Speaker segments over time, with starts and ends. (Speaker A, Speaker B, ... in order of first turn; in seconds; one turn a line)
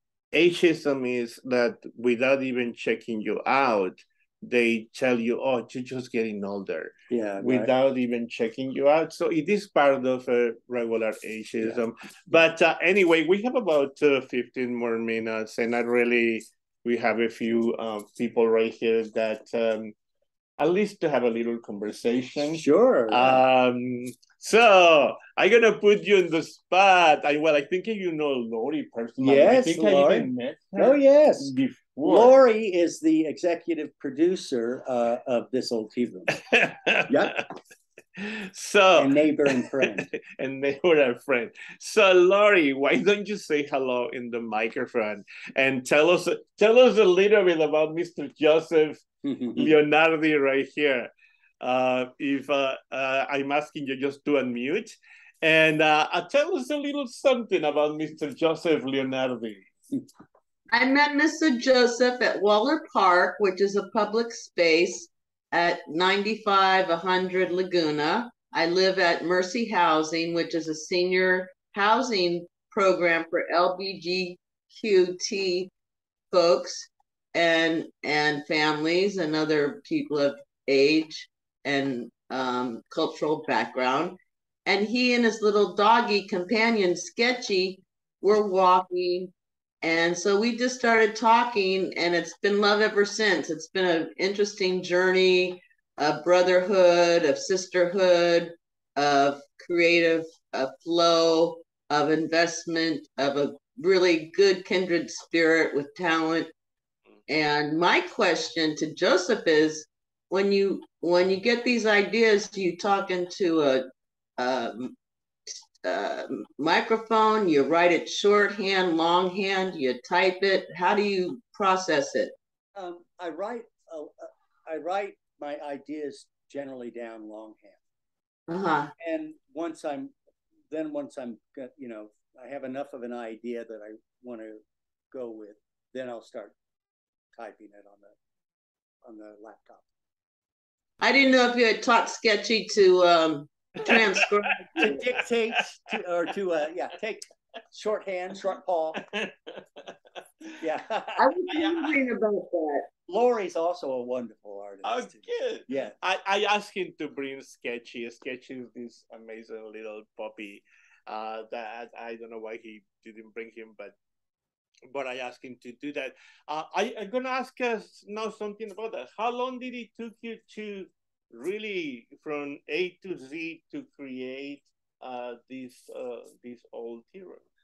Speaker A: 0.3-19.9
Speaker B: 7.1-7.7
Speaker A: 20.6-32.4
Speaker B: 22.5-23.4
Speaker B: 29.2-31.5
Speaker B: 32.0-36.4
Speaker A: 36.3-37.4
Speaker B: 37.1-37.3
Speaker A: 38.2-59.6
Speaker B: 39.0-40.1
Speaker B: 49.2-49.8
Speaker C: 60.7-75.7
Speaker C: 76.3-106.5
Speaker C: 107.3-113.8
Speaker C: 114.4-114.9
Speaker C: 115.8-122.3
Speaker B: 122.7-127.8
Speaker C: 128.5-128.9
Speaker B: 129.0-130.1
Speaker B: 130.7-134.6
Speaker B: 135.1-136.6
Speaker B: 137.3-138.2
Speaker B: 139.0-139.8
Speaker C: 141.0-145.1
Speaker A: 143.9-144.9
Speaker B: 144.8-149.0
Speaker A: 149.0-149.9
Speaker B: 150.6-151.9
Speaker C: 151.2-152.9
Speaker B: 153.1-155.9
Speaker A: 154.8-163.9
Speaker A: 164.9-177.4